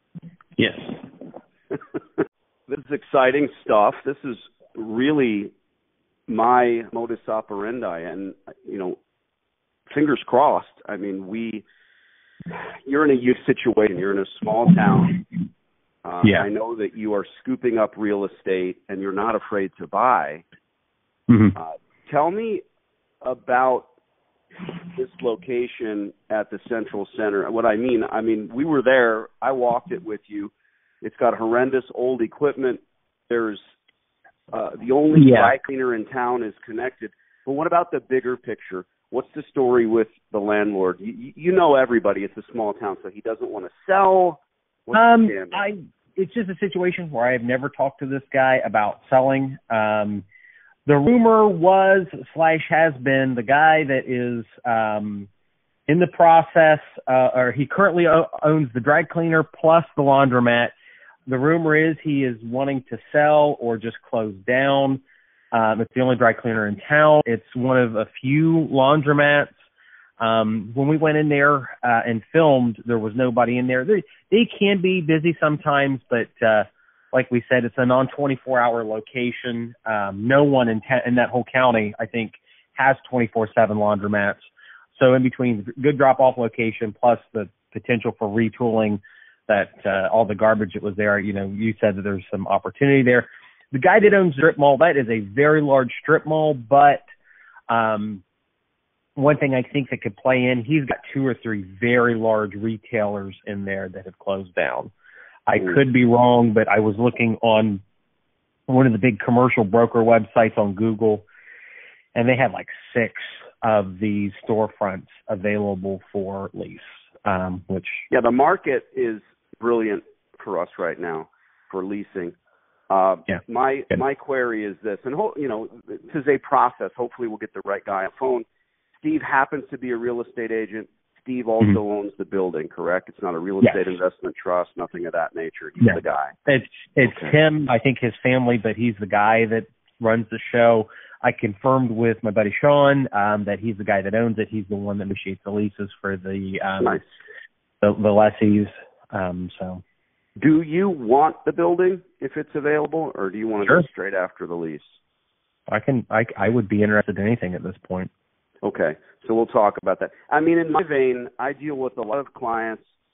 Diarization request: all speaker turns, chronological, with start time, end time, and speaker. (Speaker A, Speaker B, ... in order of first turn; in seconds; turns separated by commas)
Speaker A: 0.6-1.0, Speaker B: 2.7-5.5, Speaker B: 6.3-9.0, Speaker B: 9.9-11.6, Speaker B: 12.5-15.2, Speaker B: 16.1-20.4, Speaker A: 21.3-21.6, Speaker B: 21.6-22.6, Speaker B: 23.2-23.9, Speaker B: 24.9-33.6, Speaker B: 34.5-45.6, Speaker A: 35.1-35.5, Speaker A: 44.9-50.2, Speaker A: 50.9-55.3, Speaker A: 55.9-60.7, Speaker A: 61.3-65.0, Speaker A: 65.5-69.5, Speaker A: 70.2-84.4, Speaker A: 85.0-97.0, Speaker A: 97.7-98.2, Speaker A: 99.2-104.9, Speaker A: 105.5-107.8, Speaker A: 108.7-111.2, Speaker A: 112.2-118.0, Speaker B: 118.1-122.4, Speaker B: 122.9-128.4, Speaker B: 129.0-136.3, Speaker A: 135.8-147.0, Speaker B: 137.0-137.3, Speaker A: 147.8-149.8, Speaker B: 150.4-155.0, Speaker A: 155.7-158.1, Speaker B: 158.6-162.8